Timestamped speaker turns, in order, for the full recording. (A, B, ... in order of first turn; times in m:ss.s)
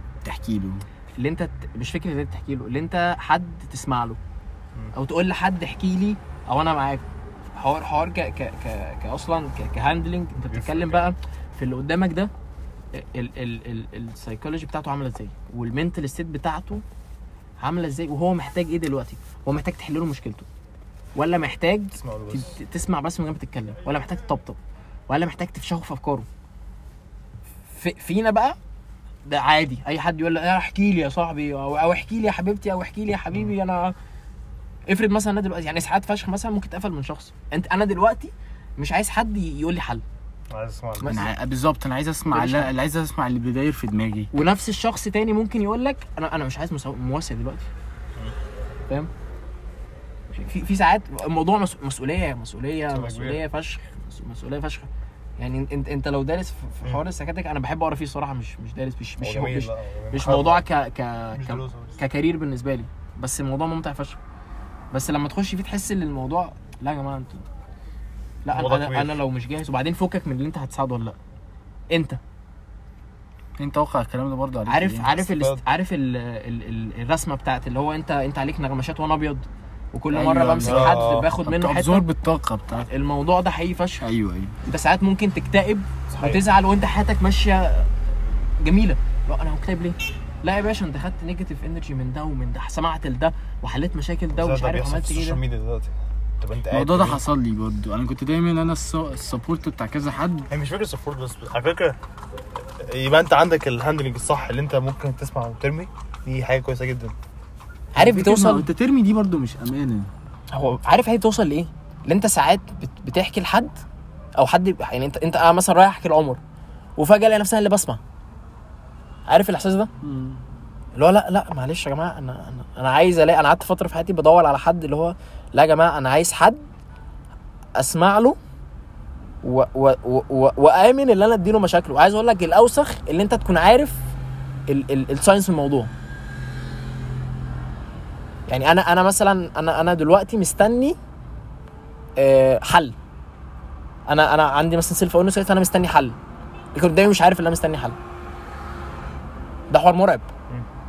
0:00.2-0:00.8 A
0:01.2-0:04.2 B
0:04.9-0:12.3 B
0:10.4-0:11.1 C
0:12.9-0:16.8 B
0:17.6-0:20.4 B
0:21.2-0:24.6 B
0:21.9-0:22.6 C
0:25.1-0:26.3 B
0:27.6-0:28.6 B
0:29.2-0:33.9 B
0:34.9-0:40.0 B
0:40.5-0:41.2 C
0:41.0-0:41.3 B
0:41.1-0:44.3 A
0:42.3-0:42.7 B
0:44.3-0:47.7 B
0:50.3-1:04.2 B
0:52.9-0:53.4 C
0:59.2-1:00.6 C
1:01.3-1:02.0 C
1:04.9-1:07.4 B
1:08.4-1:11.2 B
1:08.5-1:09.2 C
1:11.9-1:12.2 B
1:13.6-1:15.1 A
1:14.7-1:22.1 B
1:15.2-1:15.6 C
1:20.1-1:22.9 A
1:20.6-1:21.3 C
1:22.9-1:24.1 B
1:24.0-1:24.6 A
1:24.6-1:35.4 B
1:26.1-1:26.4 C
1:34.3-1:37.2 C
1:36.7-1:40.5 A
1:40.5-1:42.0 C
1:42.8-1:47.1 C
1:47.9-1:48.7 B
1:47.9-1:50.1 A
1:50.5-1:53.8 B
1:54.4-1:56.4 B
1:57.0-1:58.0 B
1:59.3-1:59.9 B
2:00.0-2:00.4 A
2:00.9-2:06.6 B
2:07.8-2:08.4 B
2:09.4-2:14.0 B
2:14.7-2:15.9 B
2:18.5-2:21.0 B
2:22.2-2:22.9 B
2:24.1-2:26.2 B
2:26.7-2:28.0 B
2:29.7-2:30.3 B